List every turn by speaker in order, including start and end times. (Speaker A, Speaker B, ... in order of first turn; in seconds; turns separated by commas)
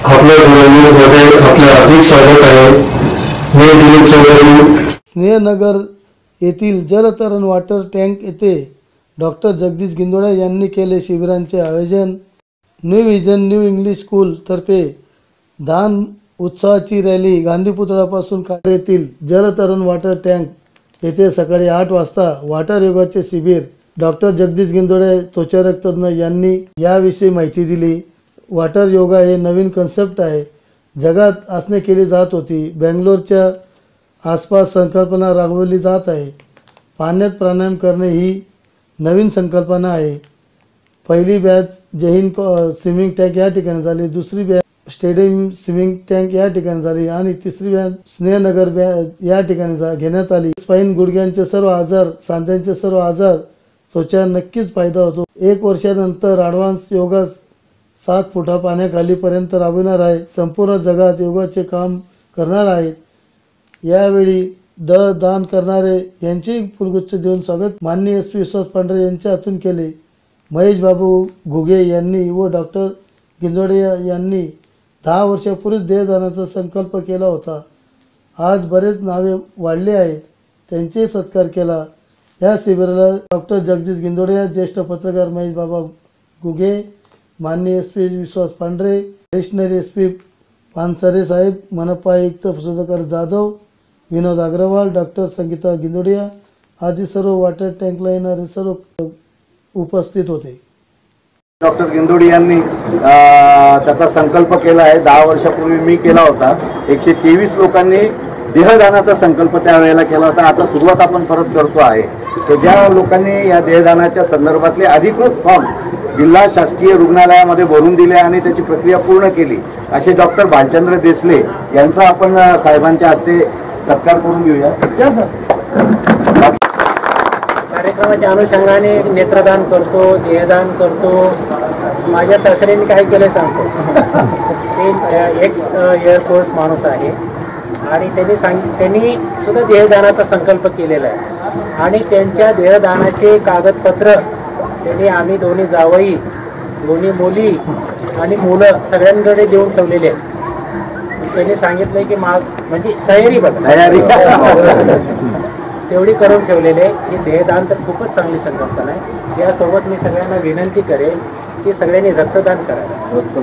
Speaker A: 0.1-2.4, Speaker B: 0.3-2.6, Speaker A: 3.6-4.4, Speaker B: 3.8-4.6, Speaker A: 5.1-5.8, Speaker A: 6.4-8.6, Speaker A: 9.2-12.2, Speaker A: 12.9-14.9, Speaker A: 15.7-28.0, Speaker A: 28.5-30.5, Speaker A: 31.0-33.5, Speaker A: 34.2-36.3, Speaker A: 37.0-38.4, Speaker A: 39.0-40.2, Speaker A: 41.0-57.4, Speaker A: 58.0-63.0, Speaker A: 63.9-69.9, Speaker A: 70.5-74.5, Speaker A: 75.0-77.6, Speaker A: 78.4-81.8, Speaker A: 82.4-86.8, Speaker A: 87.4-90.2, Speaker A: 90.7-93.5, Speaker A: 94.1-96.3, Speaker A: 96.8-99.1, Speaker A: 99.8-100.6, Speaker C: 101.6-125.0, Speaker D: 127.7-131.4, Speaker D: 132.1-133.7, Speaker D: 134.7-137.2, Speaker D: 137.8-141.2, Speaker D: 141.8-144.2, Speaker D: 144.8-146.2, Speaker D: 146.8-147.6, Speaker D: 148.2-150.2, Speaker D: 151.2-154.0, Speaker C: 153.6-154.9, Speaker D: 155.9-163.1